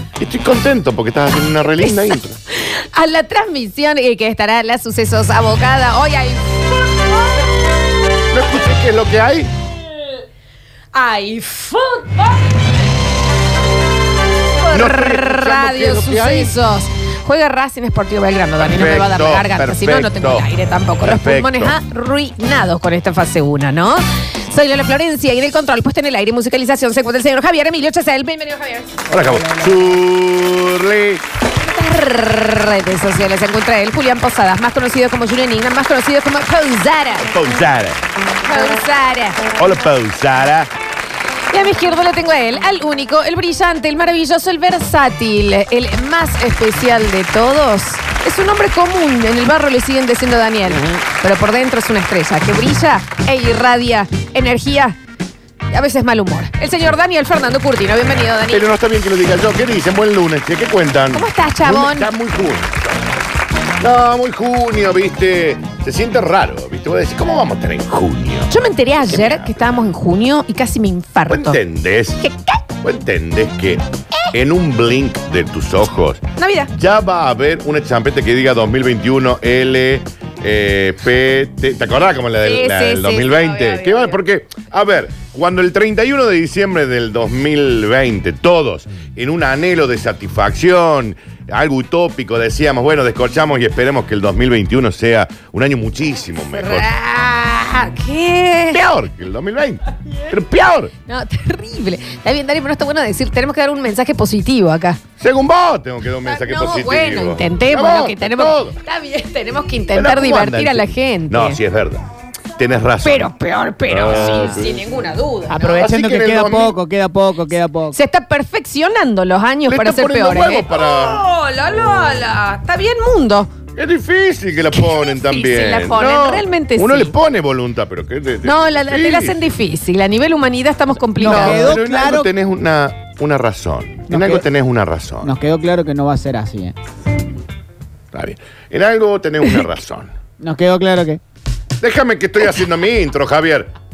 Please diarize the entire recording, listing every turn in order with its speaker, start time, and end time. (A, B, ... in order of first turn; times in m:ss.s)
0:00.2-0:02.4 A
0:01.7-0:06.6 B
0:08.3-0:09.5 A
0:10.9-0:12.6 B
0:14.5-0:29.1 B
0:14.7-0:16.5 A
0:18.6-0:20.4 A
0:21.0-0:21.8 A
0:29.1-0:31.2 A
0:31.5-0:37.3 B
0:37.2-0:38.0 A
0:38.4-0:39.4 B
0:39.6-0:40.7 A
0:41.5-0:55.0 B
0:50.7-0:51.0 A
0:55.7-0:58.6 B
0:58.2-1:03.0 A
1:01.1-1:02.1 B
1:03.8-1:08.5 A
1:08.5-1:11.6 B
1:09.0-1:09.8 A
1:11.3-1:12.2 A
1:12.2-1:12.6 B
1:12.8-1:16.2 A
1:16.4-1:16.7 B
1:16.8-1:36.9 A
1:22.4-1:24.2 B
1:36.5-1:38.8 B
1:38.7-1:40.9 A
1:41.0-1:45.0 B
1:45.2-1:48.8 A
1:46.2-1:51.6 B
1:49.9-1:52.0 A
1:52.6-1:53.3 A
1:53.0-1:55.7 B
1:53.9-1:54.8 A
1:55.5-1:58.0 C
1:55.7-1:56.8 A
1:57.9-2:03.5 B
1:59.7-2:01.2 A
2:03.8-2:09.5 A
2:04.7-2:07.1 B
2:08.4-2:11.7 B
2:11.2-2:12.3 C
2:11.2-2:15.3 A
2:14.1-2:14.5 C
2:15.2-2:16.7 C
2:18.1-2:20.1 A
2:20.4-2:21.2 C
2:21.8-2:23.7 A